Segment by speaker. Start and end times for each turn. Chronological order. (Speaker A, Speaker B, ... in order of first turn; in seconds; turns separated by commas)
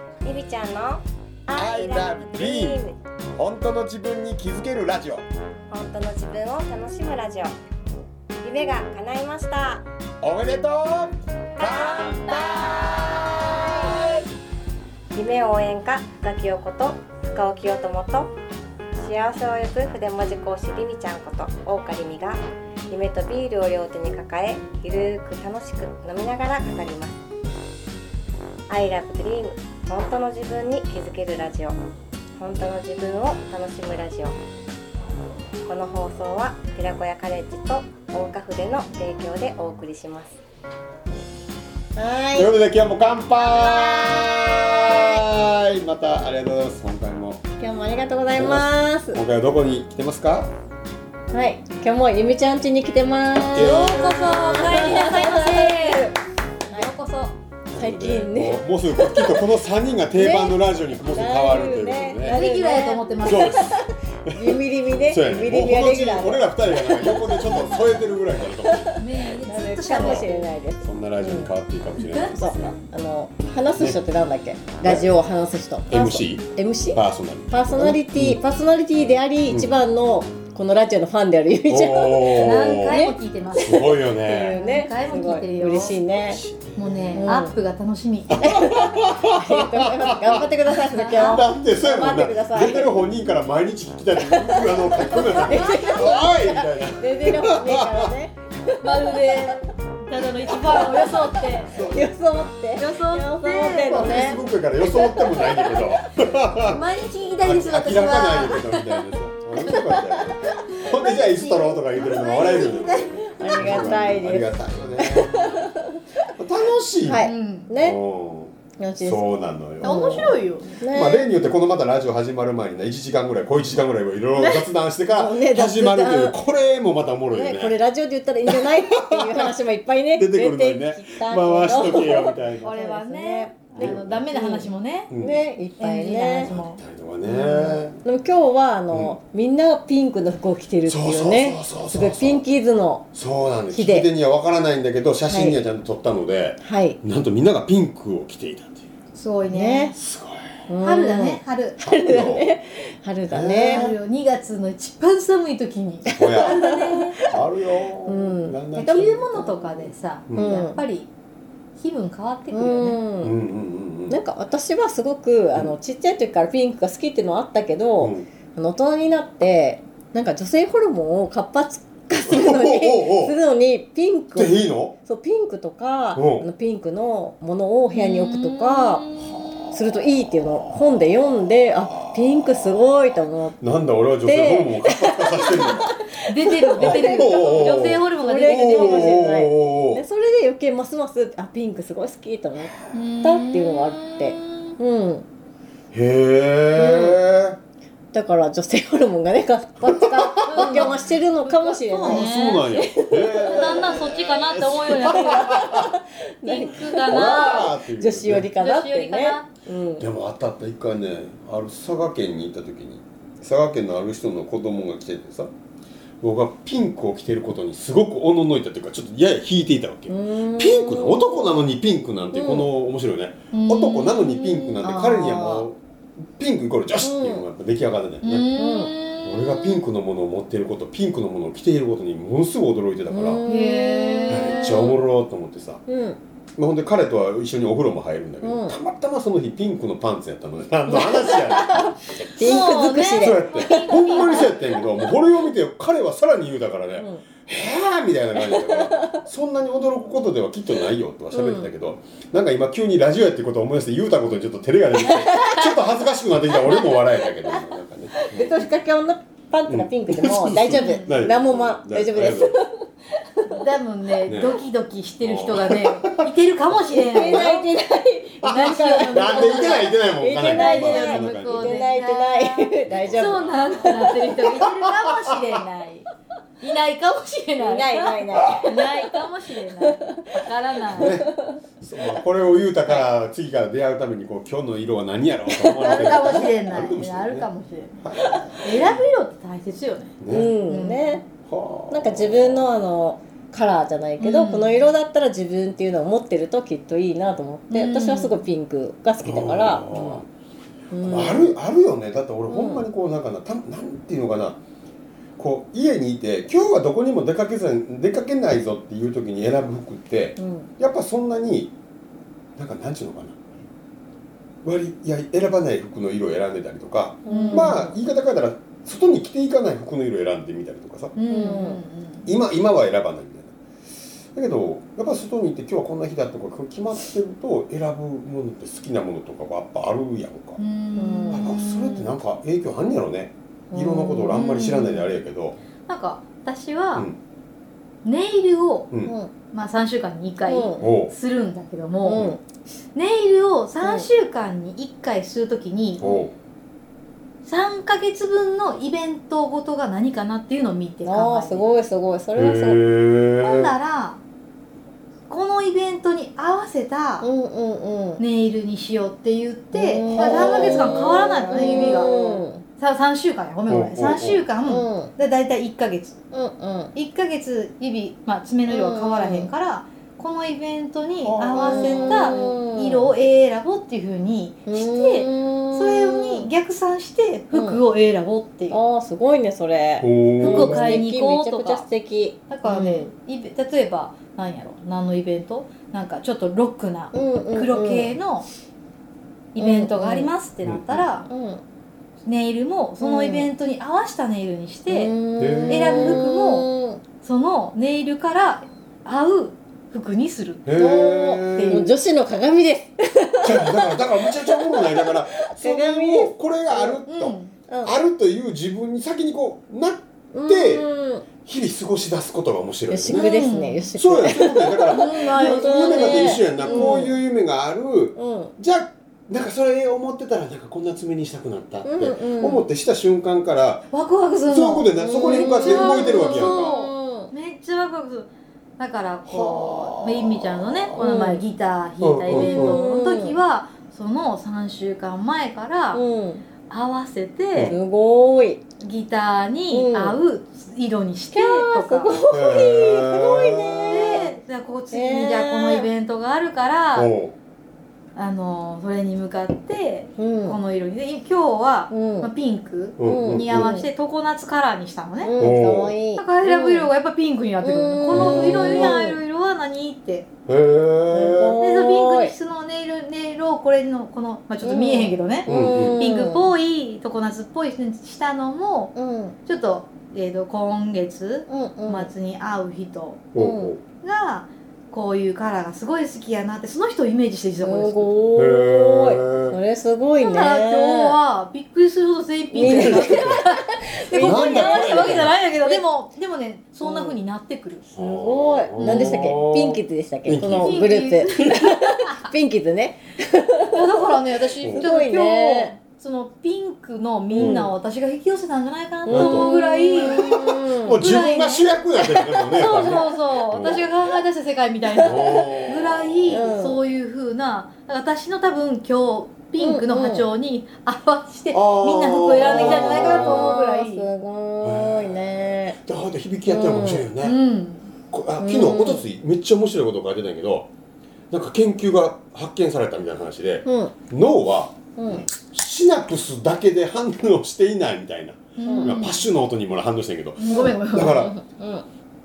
Speaker A: 0.2-3.0, Speaker B: 1.5-2.8, Speaker B: 3.4-5.2, Speaker A: 5.7-7.5, Speaker A: 8.4-9.8, Speaker B: 10.2-14.2, Speaker A: 11.6-12.5, Speaker A: 15.1-18.3, Speaker A: 18.9-27.2, Speaker A: 28.7-31.8, Speaker A: 32.4-34.4, Speaker A: 35.6-40.3, Speaker C: 42.0-42.5, Speaker B: 42.3-47.4, Speaker A: 43.5-43.9, Speaker C: 43.9-44.3, Speaker C: 47.6-49.2, Speaker B: 48.3-50.5, Speaker C: 51.3-56.2, Speaker B: 53.5-55.2, Speaker D: 53.5-56.1, Speaker D: 56.7-57.3, Speaker B: 57.7-62.4, Speaker C: 57.7-59.5, Speaker C: 60.1-68.0, Speaker D: 62.2-63.8, Speaker B: 63.2-69.0, Speaker C: 68.6-71.5, Speaker D: 69.0-70.5, Speaker B: 69.9-72.8, Speaker D: 72.0-72.3, Speaker C: 72.2-86.4, Speaker B: 74.8-75.1, Speaker B: 75.9-78.4, Speaker B: 79.5-79.8, Speaker B: 81.7-83.0, Speaker D: 82.1-86.0, Speaker B: 83.6-84.6, Speaker B: 86.1-87.3, Speaker D: 86.8-88.7, Speaker C: 87.1-87.5, Speaker B: 88.3-90.5, Speaker C: 88.4-93.0, Speaker D: 90.7-91.4, Speaker B: 91.1-98.1, Speaker C: 94.2-99.4, Speaker D: 95.4-96.4, Speaker D: 98.8-101.9, Speaker C: 100.5-105.9, Speaker B: 101.6-102.1, Speaker D: 102.8-104.2, Speaker B: 103.8-106.8, Speaker D: 106.7-109.2, Speaker B: 107.4-115.5, Speaker C: 109.6-110.5, Speaker D: 110.4-113.9, Speaker C: 113.4-116.0, Speaker B: 116.4-117.3, Speaker C: 117.0-118.0, Speaker D: 117.2-117.7, Speaker B: 117.8-127.8, Speaker C: 118.8-119.3, Speaker C: 119.8-121.3, Speaker D: 119.8-120.8, Speaker C: 124.3-126.4, Speaker C: 127.3-136.5, Speaker B: 128.5-129.6, Speaker B: 130.1-132.8, Speaker D: 132.6-135.1, Speaker B: 133.8-134.2, Speaker B: 135.1-135.4, Speaker D: 135.8-136.8, Speaker B: 136.4-138.0, Speaker C: 137.2-143.1, Speaker B: 138.9-139.2, Speaker B: 140.8-142.4, Speaker B: 143.1-148.9, Speaker C: 143.7-144.1, Speaker C: 145.2-145.6, Speaker C: 146.6-147.0, Speaker D: 149.1-150.0, Speaker C: 149.5-149.9, Speaker B: 150.0-150.6, Speaker C: 150.7-154.0, Speaker D: 150.8-151.8, Speaker B: 151.8-152.6, Speaker B: 153.2-153.9, Speaker D: 153.7-157.2, Speaker C: 156.1-157.2, Speaker B: 156.1-156.6, Speaker B: 157.2-159.3, Speaker C: 158.1-158.6, Speaker D: 158.7-161.1, Speaker C: 159.3-159.7, Speaker C: 160.3-160.8, Speaker D: 161.8-163.0, Speaker C: 162.5-163.3, Speaker B: 163.2-164.2, Speaker C: 164.1-179.1, Speaker B: 168.0-168.3, Speaker B: 172.2-173.4, Speaker B: 174.3-174.9, Speaker B: 176.1-176.5, Speaker D: 177.9-179.4, Speaker C: 179.7-183.6, Speaker B: 182.0-182.8, Speaker B: 183.6-185.9, Speaker C: 184.2-195.2, Speaker D: 186.3-189.4, Speaker B: 186.8-190.0, Speaker D: 192.9-194.7, Speaker B: 195.9-197.6, Speaker C: 196.7-197.2, Speaker C: 198.1-204.0, Speaker B: 200.4-200.9, Speaker D: 200.4-202.7, Speaker B: 202.0-205.9, Speaker D: 203.4-205.7, Speaker C: 204.9-210.1, Speaker D: 206.4-207.7, Speaker B: 207.0-208.5, Speaker D: 208.6-209.5, Speaker B: 210.0-215.5, Speaker B: 216.2-228.5, Speaker C: 220.1-221.6, Speaker C: 222.3-222.7, Speaker D: 223.5-225.7, Speaker C: 227.0-227.4, Speaker D: 228.2-229.8, Speaker C: 228.6-228.9, Speaker B: 229.2-233.4, Speaker C: 233.1-235.0, Speaker D: 233.4-234.9, Speaker B: 234.3-235.8, Speaker C: 235.9-236.2, Speaker B: 236.6-242.6, Speaker C: 238.4-238.7, Speaker C: 240.9-245.1, Speaker D: 242.3-244.8, Speaker B: 243.2-258.5, Speaker C: 246.9-247.2, Speaker C: 248.4-249.2, Speaker C: 251.3-251.7, Speaker C: 255.0-255.7, Speaker C: 256.6-257.6, Speaker C: 258.1-262.8, Speaker B: 259.7-262.5, Speaker D: 260.7-261.3, Speaker D: 263.4-267.7, Speaker B: 264.3-264.6, Speaker B: 265.2-266.2, Speaker C: 266.7-274.4, Speaker D: 268.4-276.1, Speaker B: 268.4-271.8, Speaker B: 272.8-274.8, Speaker D: 276.6-281.2, Speaker C: 277.6-279.1, Speaker C: 279.8-280.4, Speaker B: 280.9-287.5, Speaker C: 281.0-281.6, Speaker D: 285.6-288.1, Speaker C: 285.7-286.3, Speaker B: 288.0-289.0, Speaker D: 288.6-291.2, Speaker B: 290.2-290.6, Speaker C: 290.3-291.3, Speaker B: 291.4-292.7, Speaker C: 291.9-300.2, Speaker D: 294.2-294.8, Speaker D: 297.7-298.4, Speaker B: 299.2-300.3, Speaker C: 300.9-301.5, Speaker B: 301.0-304.6, Speaker C: 302.5-302.9, Speaker B: 305.4-311.7, Speaker C: 310.4-310.7, Speaker B: 312.6-313.4, Speaker B: 314.6-321.1, Speaker C: 317.2-317.9, Speaker D: 317.3-317.9, Speaker D: 321.1-322.3, Speaker C: 321.3-321.8, Speaker B: 322.2-323.5, Speaker B: 324.3-330.6, Speaker D: 330.6-332.1, Speaker C: 330.9-331.4, Speaker B: 331.3-335.6, Speaker C: 333.7-334.4, Speaker D: 334.3-335.1, Speaker D: 335.9-337.1, Speaker D: 338.0-338.9, Speaker C: 339.0-339.3, Speaker D: 339.5-342.2, Speaker C: 340.4-340.8, Speaker B: 340.8-341.1, Speaker C: 342.0-342.4, Speaker D: 342.9-346.2, Speaker C: 343.8-344.1, Speaker B: 346.0-346.3, Speaker D: 347.4-351.6, Speaker C: 351.0-352.8, Speaker B: 352.3-353.7, Speaker D: 353.4-354.2, Speaker D: 355.3-357.3, Speaker C: 357.2-358.2, Speaker D: 358.2-366.2, Speaker C: 359.7-362.6, Speaker B: 360.3-360.8, Speaker B: 363.7-364.5, Speaker C: 364.6-365.1, Speaker C: 366.3-366.9, Speaker D: 366.9-378.8, Speaker C: 368.6-369.5, Speaker B: 371.2-372.4, Speaker C: 371.5-373.1, Speaker C: 374.6-376.5, Speaker C: 377.5-377.8, Speaker C: 378.7-383.1, Speaker B: 380.0-381.0, Speaker D: 380.4-381.9, Speaker D: 382.5-388.5, Speaker C: 387.1-388.1, Speaker D: 389.5-391.3, Speaker C: 389.6-390.3, Speaker B: 390.6-391.1, Speaker C: 391.2-391.6, Speaker D: 392.2-395.1, Speaker C: 393.0-393.5, Speaker C: 394.9-397.0, Speaker B: 395.4-396.2, Speaker D: 395.7-396.7, Speaker D: 397.2-400.8, Speaker B: 400.6-401.9, Speaker C: 400.7-407.0, Speaker D: 401.4-401.9, Speaker B: 403.4-410.9, Speaker D: 407.1-407.5, Speaker C: 407.7-407.9, Speaker C: 410.3-411.3, Speaker B: 411.4-413.4, Speaker C: 412.9-417.1, Speaker D: 413.1-413.9, Speaker B: 413.9-423.9, Speaker D: 415.9-417.1, Speaker C: 418.1-418.5, Speaker C: 421.8-422.6, Speaker D: 423.9-436.0, Speaker B: 424.4-426.7, Speaker C: 425.0-427.3, Speaker B: 429.2-431.0, Speaker C: 430.9-431.4, Speaker B: 432.0-432.8, Speaker C: 432.3-433.4, Speaker C: 435.9-436.4, Speaker D: 436.7-437.8, Speaker C: 437.6-438.6, Speaker D: 438.8-442.2, Speaker C: 439.7-440.2, Speaker C: 441.3-444.3, Speaker B: 442.3-444.2, Speaker D: 443.9-447.1, Speaker C: 444.9-445.9, Speaker B: 446.9-447.3, Speaker D: 448.1-455.3, Speaker C: 450.2-450.6, Speaker C: 451.9-452.3, Speaker B: 453.0-453.8, Speaker C: 453.0-453.9, Speaker C: 455.2-456.9, Speaker B: 455.4-456.0, Speaker D: 456.1-460.3, Speaker C: 457.6-459.2, Speaker B: 458.1-459.0, Speaker B: 460.5-461.6, Speaker C: 461.1-462.3, Speaker D: 461.6-473.2, Speaker C: 464.6-466.5, Speaker B: 465.4-466.0, Speaker C: 468.9-469.3, Speaker C: 471.5-472.1, Speaker B: 473.3-473.8, Speaker C: 473.4-473.7, Speaker D: 474.0-478.1, Speaker C: 477.6-481.2, Speaker B: 478.3-479.6, Speaker D: 480.2-487.9, Speaker C: 482.5-485.8, Speaker B: 482.6-483.4, Speaker B: 484.2-485.3, Speaker C: 486.8-487.2, Speaker B: 487.9-490.9, Speaker C: 487.9-494.1, Speaker D: 488.8-489.4, Speaker D: 490.6-492.2, Speaker D: 493.7-500.2, Speaker B: 494.6-494.9, Speaker C: 494.6-495.8, Speaker C: 497.3-497.7, Speaker B: 497.4-497.6, Speaker C: 499.1-501.0, Speaker B: 499.1-503.9, Speaker D: 501.0-501.8, Speaker C: 502.0-503.1, Speaker D: 502.5-514.1, Speaker C: 505.0-505.4, Speaker B: 505.0-506.4, Speaker C: 506.3-506.8, Speaker C: 509.6-510.3, Speaker B: 511.5-513.5, Speaker C: 512.3-515.8, Speaker B: 514.6-517.4, Speaker C: 516.5-517.1, Speaker D: 517.2-517.9, Speaker B: 518.1-520.7, Speaker C: 518.4-519.0, Speaker B: 521.3-531.4, Speaker C: 523.6-524.0, Speaker C: 525.0-525.3, Speaker D: 528.5-529.2, Speaker C: 528.6-529.1, Speaker D: 530.4-531.3, Speaker C: 530.5-531.8